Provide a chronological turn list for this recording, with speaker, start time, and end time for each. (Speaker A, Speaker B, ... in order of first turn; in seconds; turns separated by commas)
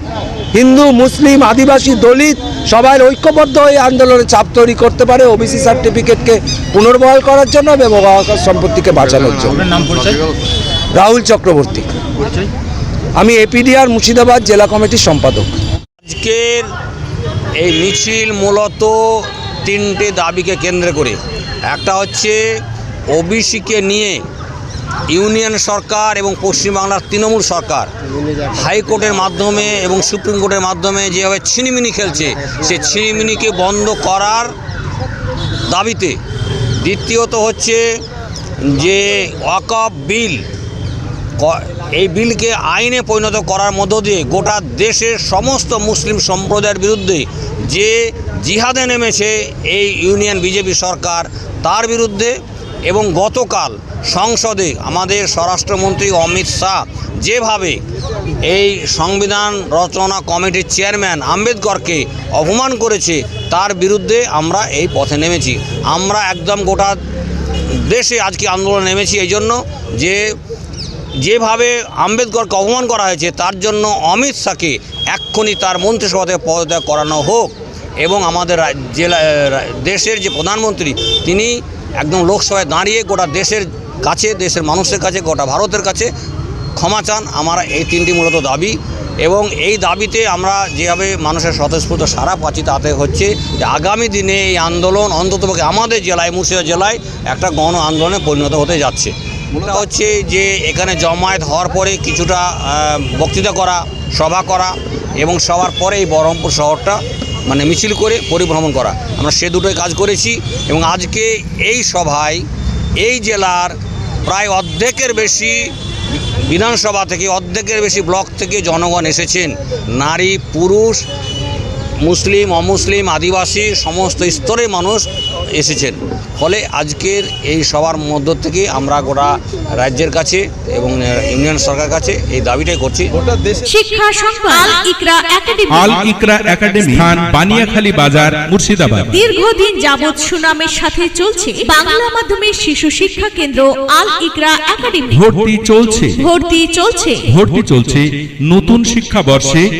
Speaker A: 0.5-9.7, Speaker A: 11.0-11.8, Speaker A: 13.2-15.5, Speaker B: 16.1-16.7, Speaker B: 17.6-21.2, Speaker B: 21.7-22.4, Speaker B: 23.1-24.2, Speaker B: 25.1-27.9, Speaker B: 28.5-34.5, Speaker B: 35.7-36.2, Speaker B: 36.8-37.8, Speaker B: 38.7-40.5, Speaker B: 41.4-52.3, Speaker B: 52.9-57.8, Speaker B: 58.5-67.0, Speaker B: 67.7-70.3, Speaker B: 71.2-86.1, Speaker B: 86.8-112.5, Speaker B: 113.0-115.7, Speaker B: 116.5-121.0, Speaker B: 122.0-133.1, Speaker C: 133.6-136.0, Speaker D: 135.7-139.2, Speaker C: 139.1-145.3, Speaker D: 145.1-146.2, Speaker C: 146.2-147.3, Speaker D: 147.3-149.6